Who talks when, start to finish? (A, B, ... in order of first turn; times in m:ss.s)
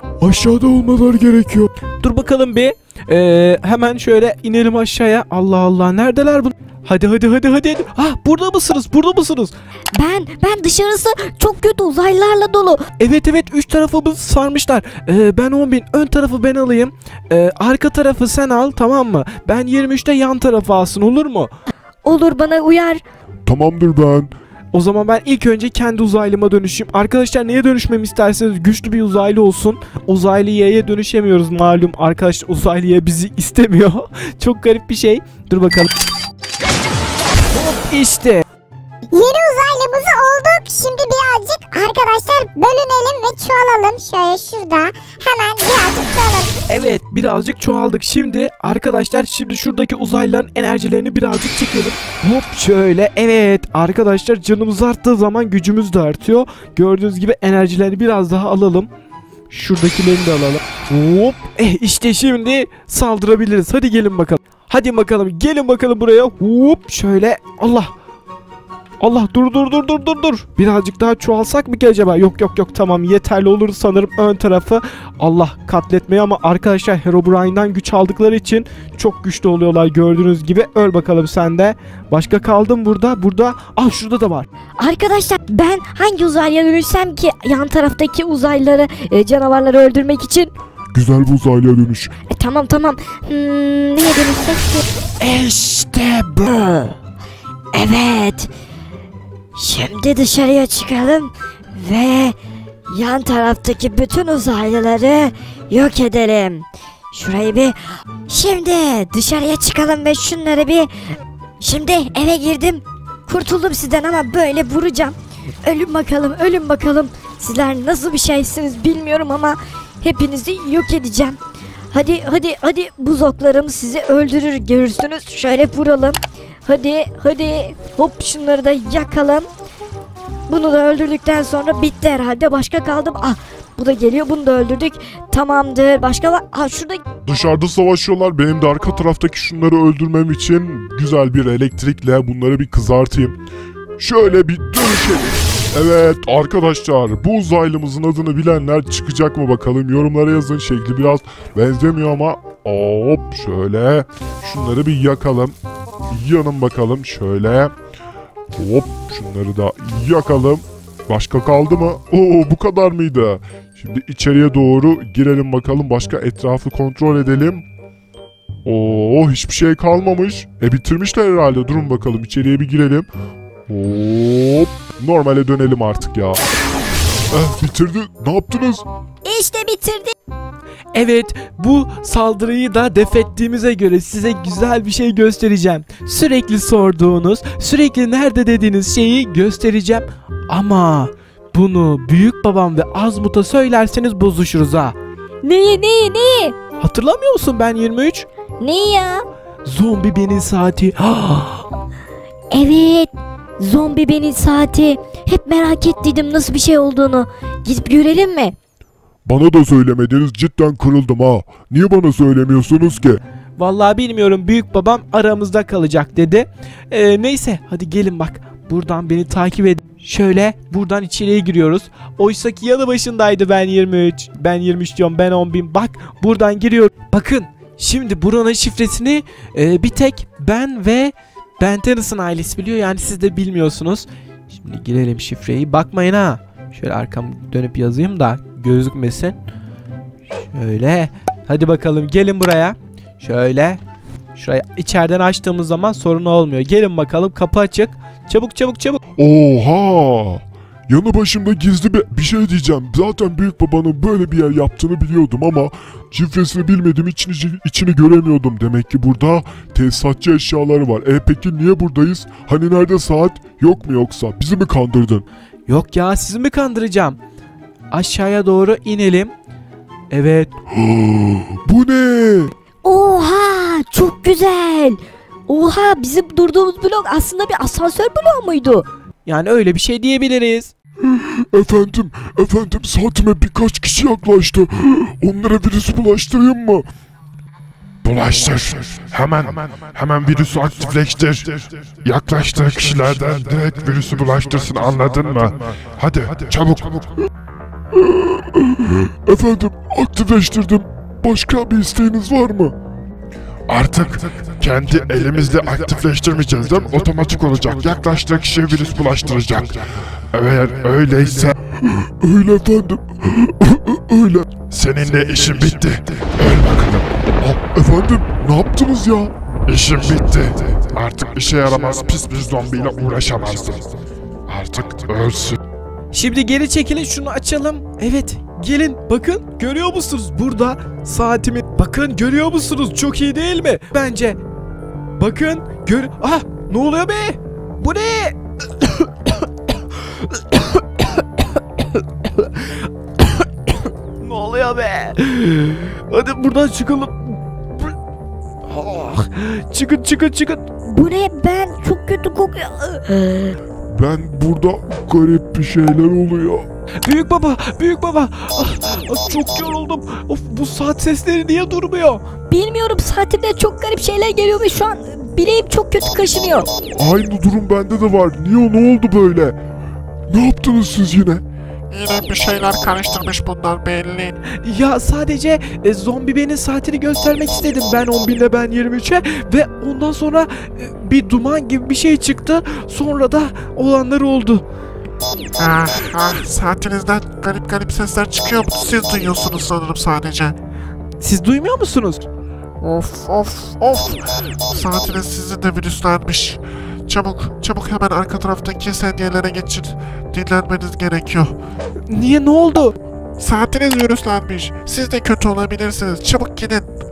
0:00.2-0:09.5 A
0:09.9-0:12.8 B
0:13.0-0:21.5 A
0:22.0-0:23.0 B
0:23.5-0:24.3 C
0:24.7-0:35.9 A
0:37.5-0:38.4 A
0:39.1-0:46.6 D
0:46.7-0:58.9 A
0:59.5-1:07.9 A
1:09.0-1:24.5 A
1:24.8-1:30.5 B
1:30.9-1:32.1 C
1:32.3-1:37.0 B
1:37.7-1:38.5 B
1:39.6-1:42.4 B
1:42.9-1:50.9 B
1:51.6-2:01.4 B
2:01.9-2:09.5 B
2:10.5-2:17.0 B
2:17.3-2:23.4 C
2:24.0-2:35.6 C
2:36.1-2:37.7 C
2:38.6-2:47.7 C
2:48.6-2:53.1 C
2:53.7-2:56.4 C
2:57.3-2:58.9 C
2:59.2-3:00.1 B
3:00.9-3:15.0 A
3:15.4-3:16.6 B
3:16.8-3:18.3 A
3:18.6-3:19.2 B
3:19.6-3:21.7 A
3:22.5-3:28.6 B
3:29.2-3:33.2 C
3:33.6-3:59.4 A
4:00.5-4:03.8 A
4:04.4-4:09.0 A
4:09.2-4:25.3 C
4:25.7-4:27.2 A
4:27.9-4:29.3 A
4:30.1-4:30.5 A
4:30.7-4:32.5 C
4:32.8-4:38.9 B
4:39.2-4:40.7 A
4:41.1-4:46.9 C
4:48.0-4:57.3 E
4:58.0-5:02.8 C
5:03.7-5:11.6 E
5:11.8-5:14.5 C
5:14.6-5:17.1 E
5:17.4-5:19.3 C
5:19.7-5:25.6 E
5:26.1-5:34.4 A
5:35.2-5:39.5 A
5:40.1-5:47.9 A
5:48.7-5:50.7 A
5:50.8-5:53.6 B
5:53.9-5:56.7 C
5:57.0-6:02.3 A
6:02.5-6:06.7 B
6:06.9-6:09.6 C
6:10.3-6:11.4 C
6:11.9-6:14.4 F
6:14.5-6:24.6 A
6:25.6-6:30.6 F
6:31.2-6:32.2 A
6:32.8-6:41.6 F
6:42.1-6:42.9 A
6:43.4-6:46.9 F